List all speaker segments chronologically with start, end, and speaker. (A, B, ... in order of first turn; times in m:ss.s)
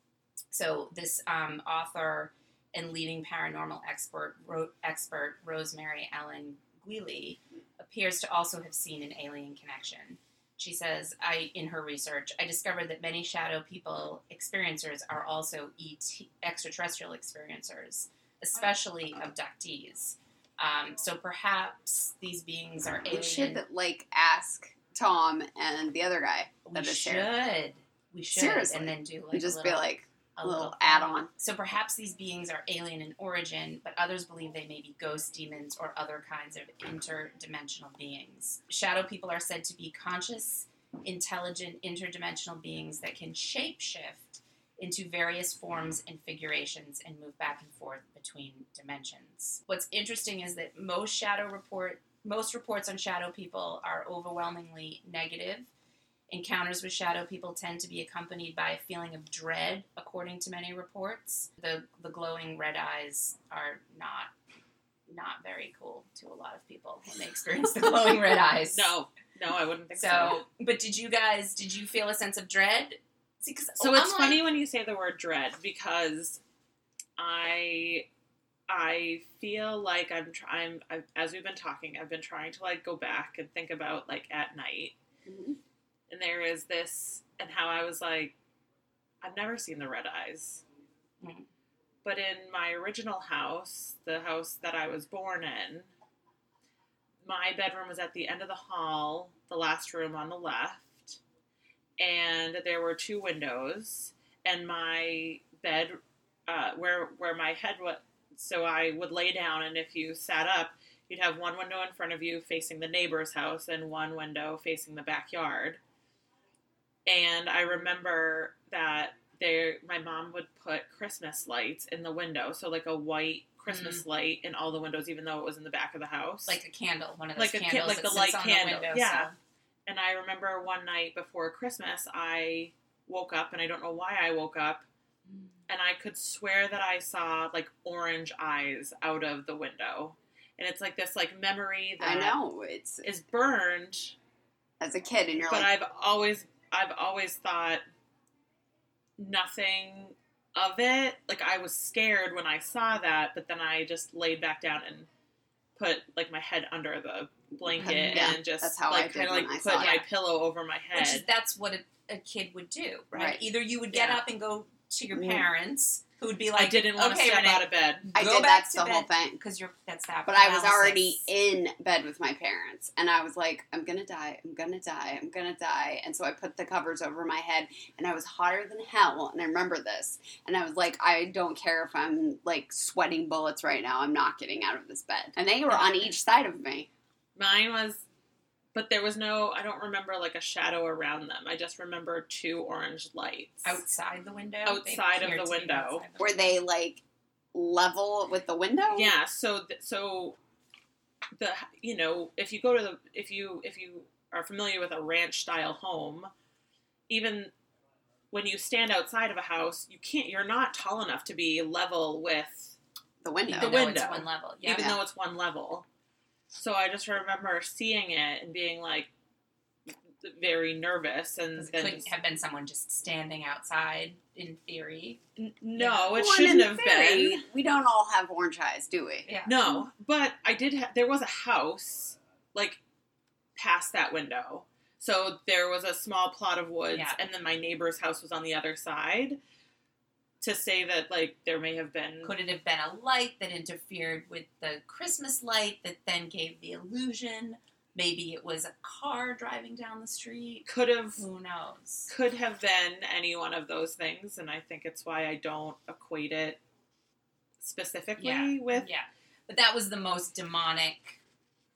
0:00.5-0:23.6 A
0:23.1-0:27.3 B
0:26.6-0:29.8 A
0:28.3-0:31.3 B
0:30.4-0:55.7 A
0:56.3-1:04.3 A
1:05.1-1:08.9 A
1:08.7-1:10.4 C
1:09.9-1:14.4 A
1:13.8-1:16.4 C
1:17.2-1:18.0 C
1:18.7-1:25.0 C
1:25.2-1:25.6 B
1:26.1-1:28.3 C
1:29.2-1:30.6 C
1:32.0-1:35.9 C
1:37.2-1:41.2 C
1:42.0-1:55.8 C
1:57.0-2:06.6 C
2:03.7-2:04.0 A
2:06.5-2:09.3 A
2:07.4-2:09.3 C
2:09.8-2:14.8 C
2:15.7-2:22.4 C
2:22.0-2:23.0 B
2:23.0-2:24.1 C
2:24.8-2:25.7 B
2:25.5-2:27.8 C
2:29.2-2:35.1 C
2:35.8-2:41.3 C
2:37.8-2:38.3 A
2:37.8-2:40.0 B
2:39.7-2:40.0 A
2:40.9-2:51.2 A
2:43.1-2:43.4 B
2:45.1-2:45.4 B
2:46.6-2:48.1 C
2:48.1-2:49.4 B
2:50.3-3:06.9 B
3:05.7-3:06.1 A
3:07.4-3:08.0 C
3:08.7-3:13.8 C
3:13.6-3:16.6 A
3:14.6-3:16.0 C
3:16.2-3:17.0 B
3:17.5-3:19.1 B
3:18.9-3:20.4 C
3:21.4-3:26.3 C
3:27.1-3:27.5 C
3:28.3-3:32.8 C
3:33.2-3:33.8 B
3:33.5-3:34.9 A
3:33.5-3:35.8 C
3:34.7-3:35.0 B
3:36.5-3:39.1 C
3:39.9-3:42.1 C
3:41.6-3:45.2 A
3:45.4-3:47.4 C
3:45.8-3:46.2 A
3:45.8-3:49.3 B
3:49.2-3:49.8 A
3:49.4-3:52.8 C
3:53.6-3:59.4 C
3:56.9-3:57.2 A
4:00.4-4:02.3 C
4:02.2-4:12.1 A
4:10.7-4:11.2 C
4:12.1-4:16.6 C
4:17.6-4:18.9 C
4:18.2-4:21.2 A